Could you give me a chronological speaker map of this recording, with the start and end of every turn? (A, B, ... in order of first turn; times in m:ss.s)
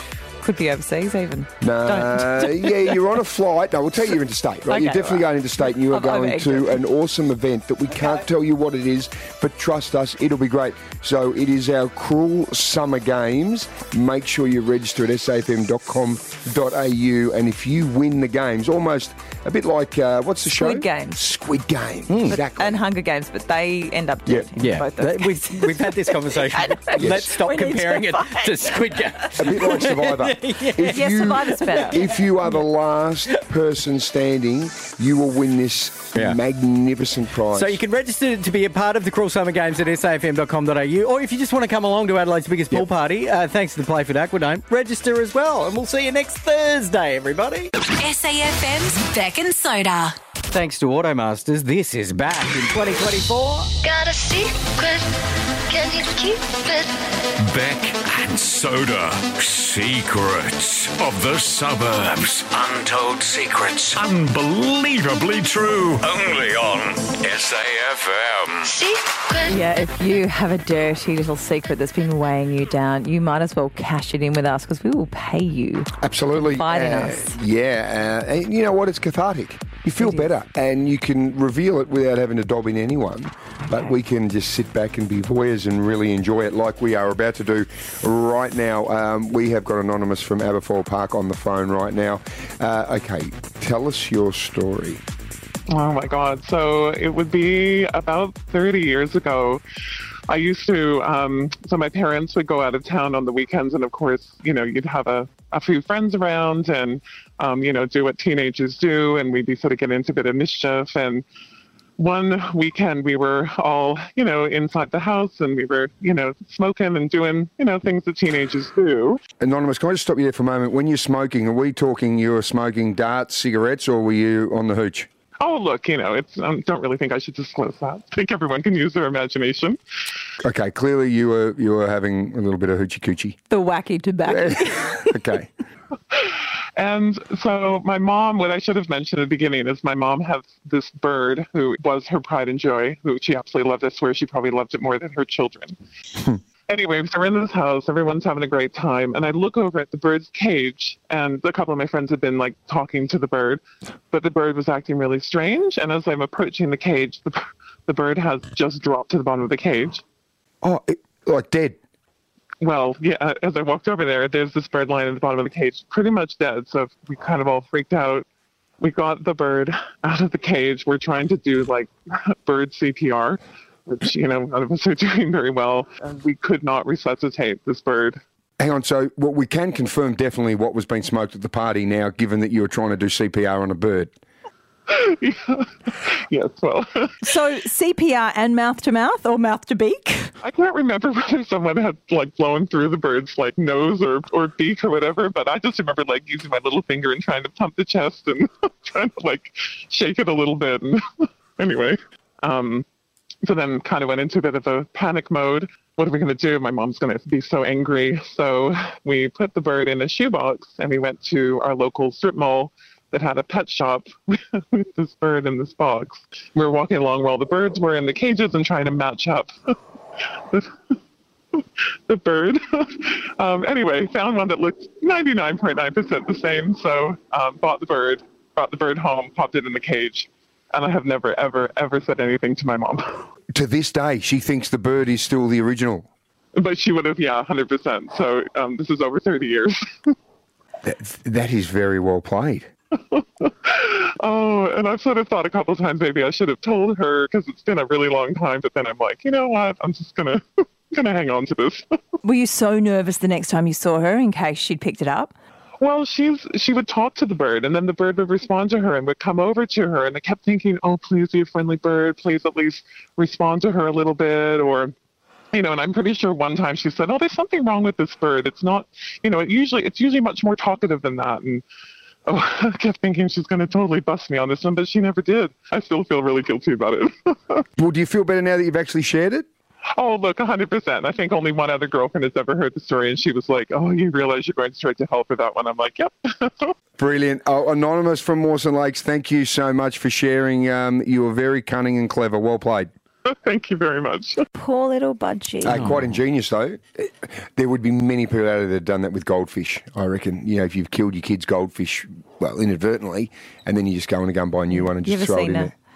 0:00.4-0:02.9 A
0:01.6-0:22.8 B
0:04.7-0:06.8 A
0:20.5-0:21.2 A
0:22.1-0:22.4 C
0:22.3-0:29.3 A
0:24.6-0:31.9 C
0:27.0-0:27.3 B
0:29.4-0:37.8 B
0:30.9-0:32.1 A
0:37.5-0:47.7 C
0:48.0-0:50.2 D
0:50.5-0:53.7 C
0:53.8-0:55.1 E
0:55.7-0:56.9 E
0:57.4-1:08.7 F
1:08.7-1:09.6 E
1:09.5-1:17.4 A
1:16.0-1:35.0 B
1:20.0-1:20.3 A
1:35.7-1:39.6 G
1:40.3-1:51.2 G
1:52.0-1:59.2 G
1:59.4-2:05.1 B
2:05.4-2:09.8 G
2:10.4-2:13.4 B
2:13.5-2:15.1 A
2:14.3-2:15.5 B
2:16.8-2:25.8 G
2:26.7-2:40.0 G
2:40.6-2:41.8 B
2:42.6-2:48.3 G
2:48.8-2:58.2 G
2:58.6-3:04.1 B
3:04.9-3:07.1 G
3:07.2-3:10.3 A
3:10.4-3:22.9 G
3:23.4-3:39.5 G
3:41.6-3:53.3 G
3:53.5-3:56.1 B
3:56.6-4:00.1 G
4:00.8-4:02.7 B
4:03.1-4:12.0 G
4:12.2-4:15.3 A
4:15.8-4:24.9 G
4:25.5-4:31.6 G
4:32.3-4:37.6 G
4:37.8-4:39.5 B
4:40.0-4:46.7 G
4:47.0-4:52.9 B
4:53.2-4:54.5 G
4:54.5-4:55.9 A
4:55.6-5:05.7 B
5:04.7-5:05.7 A